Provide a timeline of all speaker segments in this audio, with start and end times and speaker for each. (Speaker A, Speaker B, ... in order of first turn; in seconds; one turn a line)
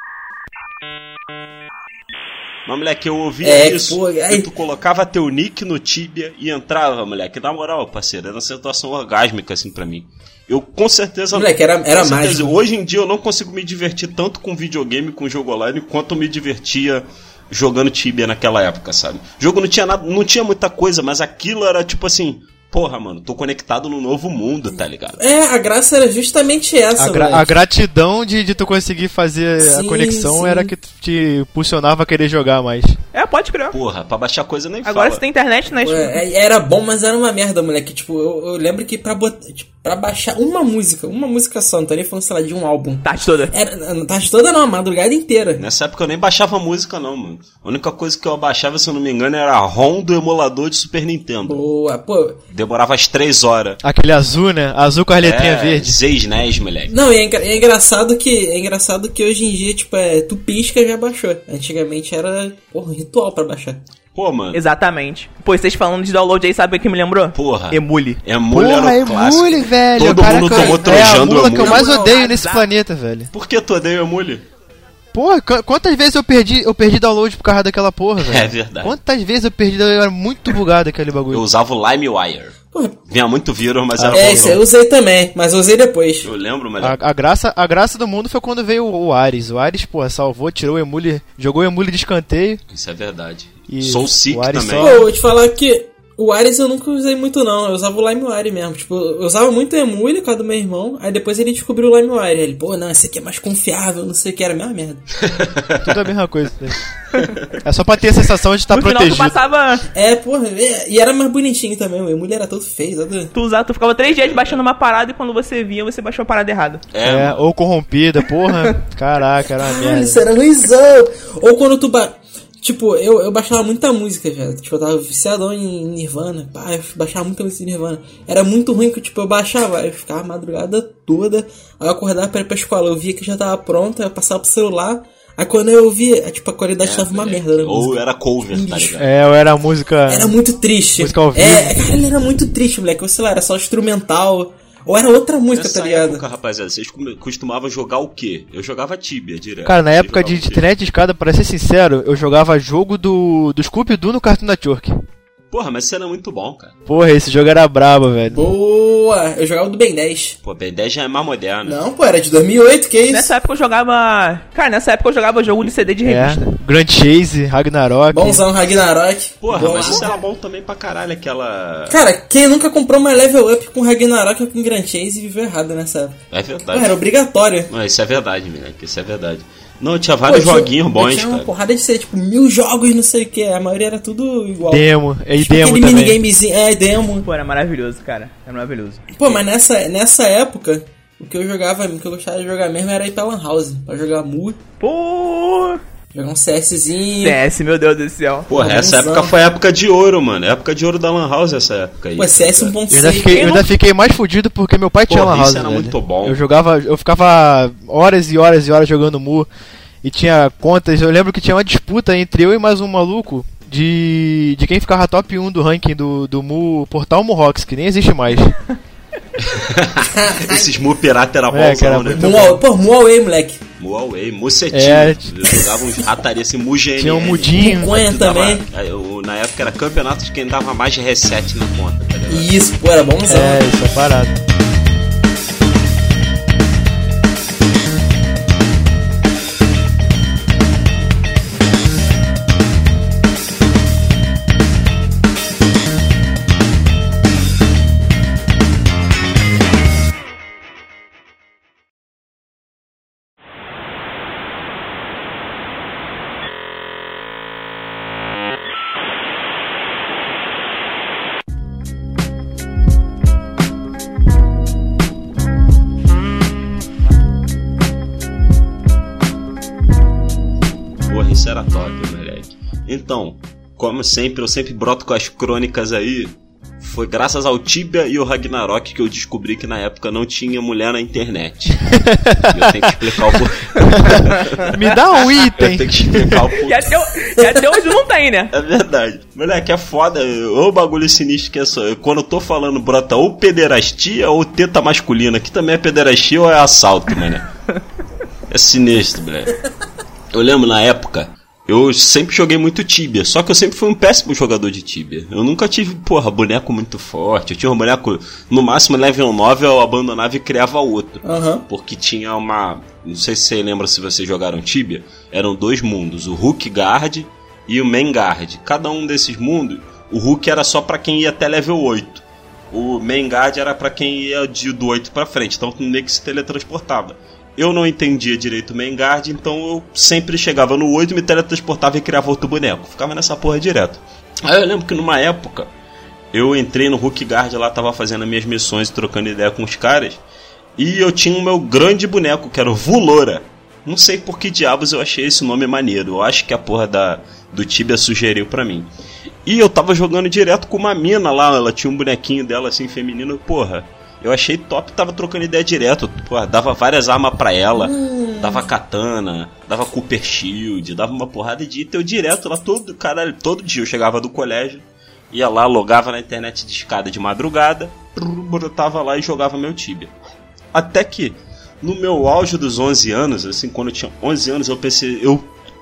Speaker A: 2.6-25.2
Speaker B: 3.4-4.5
Speaker B: 11.3-12.5
Speaker B: 25.2-27.5
Speaker C: 27.0-33.0
Speaker B: 29.6-30.7
Speaker D: 33.1-33.8
Speaker A: 33.7-35.2
Speaker D: 34.8-36.2
Speaker B: 35.8-45.6
Speaker D: 43.0-43.5
Speaker A: 45.6-51.6
Speaker B: 51.5-52.4
Speaker A: 52.5-53.8
Speaker C: 53.8-56.0
Speaker A: 55.2-56.9
Speaker B: 56.9-63.8
Speaker A: 64.1-64.6
Speaker D: 64.5-68.2
Speaker A: 67.3-71.9
Speaker C: 68.5-73.3
Speaker B: 70.4-72.0
Speaker D: 71.6-72.7
Speaker A: 73.3-74.5
Speaker C: 75.1-81.4
Speaker A: 78.2-79.0
Speaker A: 81.3-82.5
Speaker A: 83.1-84.6
Speaker C: 83.9-84.6
Speaker B: 84.1-86.3
Speaker A: 86.2-87.0
Speaker C: 86.8-92.6
Speaker A: 92.7-95.0
Speaker C: 93.7-95.0
Speaker B: 94.8-105.1
Speaker A: 105.3-105.9
Speaker C: 105.8-106.8
Speaker C: 107.6-109.4
Speaker D: 108.7-109.9
Speaker B: 109.9-113.3
Speaker D: 113.3-116.8
Speaker A: 114.0-114.6
Speaker A: 116.9-117.5
Speaker C: 117.0-120.2
Speaker B: 119.6-138.0
Speaker A: 136.8-139.1
Speaker B: 138.5-139.0
Speaker C: 139.0-140.3
Speaker B: 140.1-146.2
Speaker C: 141.0-141.8
Speaker A: 145.5-150.7
Speaker C: 149.7-154.9
Speaker A: 155.5-156.8
Speaker C: 156.9-158.4
Speaker B: 158.3-160.3
Speaker A: 160.4-161.8
Speaker B: 161.6-163.3
Speaker D: 163.1-166.5
Speaker C: 166.0-168.4
Speaker B: 168.1-170.1
Speaker A: 169.4-172.0
Speaker D: 169.8-170.1
Speaker B: 171.9-176.2
Speaker A: 176.3-177.0
Speaker B: 176.7-177.7
Speaker A: 177.7-181.5
Speaker B: 180.3-184.9
Speaker C: 184.7-186.2
Speaker B: 185.4-187.3
Speaker D: 187.2-189.1
Speaker B: 189.1-194.6
Speaker D: 194.8-195.8
Speaker B: 196.1-197.4
Speaker D: 197.2-198.5
Speaker A: 198.5-202.7
Speaker B: 198.5-199.3
Speaker B: 202.2-203.6
Speaker C: 202.9-209.5
Speaker D: 203.3-203.7
Speaker A: 205.1-206.4
Speaker C: 210.0-218.6
Speaker A: 219.4-222.3
Speaker B: 220.1-220.7
Speaker C: 221.5-222.6
Speaker B: 222.1-223.6
Speaker A: 223.8-232.5
Speaker C: 224.7-225.6
Speaker C: 227.0-228.0
Speaker B: 227.5-228.6
Speaker B: 232.3-233.6
Speaker C: 233.3-234.4
Speaker A: 271.1-284.8
Speaker C: 281.9-286.5
Speaker A: 285.4-287.0
Speaker D: 286.6-288.5
Speaker A: 288.5-297.4
Speaker A: 298.5-299.6
Speaker A: 300.3-335.7
Speaker B: 311.2-311.6
Speaker A: 336.3-340.2
Speaker A: 340.8-348.9
Speaker A: 349.4-370.1
Speaker B: 357.8-358.7
Speaker A: 370.7-375.5